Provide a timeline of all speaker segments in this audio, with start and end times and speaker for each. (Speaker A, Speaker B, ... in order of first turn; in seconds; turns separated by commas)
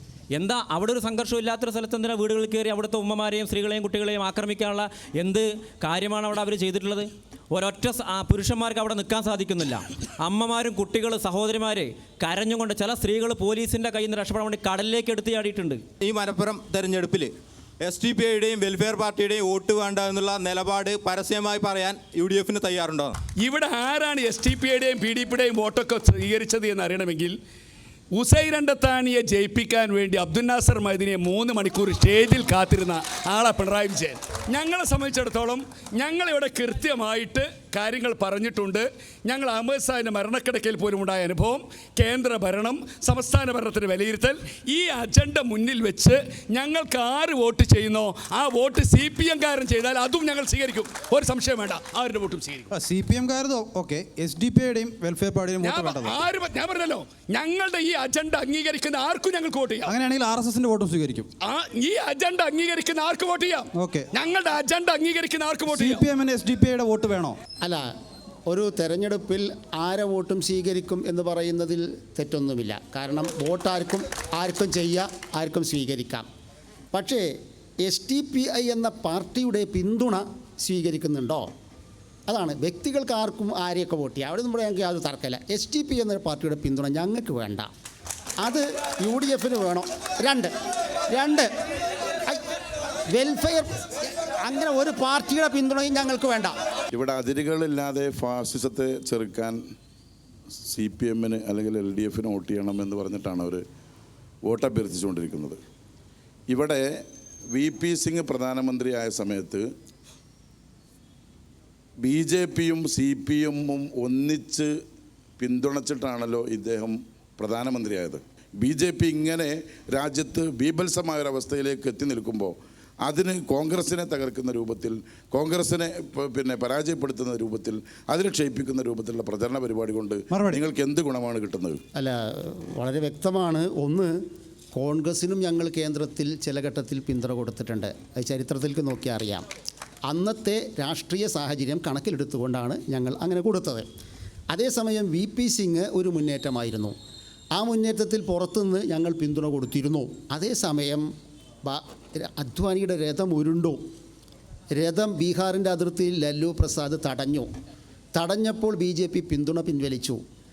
Speaker A: 0.3-15.8, Speaker B: 16.0-23.2, Speaker C: 23.4-27.3, Speaker C: 28.1-52.7, Speaker D: 52.7-56.2, Speaker C: 55.6-59.9, Speaker D: 59.8-61.3, Speaker C: 61.4-66.0, Speaker D: 63.7-64.0, Speaker D: 65.7-67.4, Speaker E: 68.5-76.2, Speaker E: 76.9-77.3, Speaker E: 77.8-81.5, Speaker E: 82.3-87.7, Speaker E: 88.4-90.5, Speaker E: 91.1-91.5, Speaker E: 93.1-93.7, Speaker E: 94.4-96.5, Speaker F: 96.9-99.5, Speaker F: 100.7-103.6, Speaker F: 104.5-105.6, Speaker F: 106.5-106.8, Speaker F: 107.5-109.6, Speaker F: 112.0-114.7, Speaker F: 115.4-122.5, Speaker F: 123.0-131.8, Speaker D: 130.3-130.6, Speaker E: 131.9-134.1, Speaker E: 134.7-139.4, Speaker E: 140.1-143.8, Speaker E: 144.5-146.9, Speaker E: 147.5-151.1, Speaker E: 151.6-153.8, Speaker E: 154.7-157.5, Speaker E: 158.1-160.2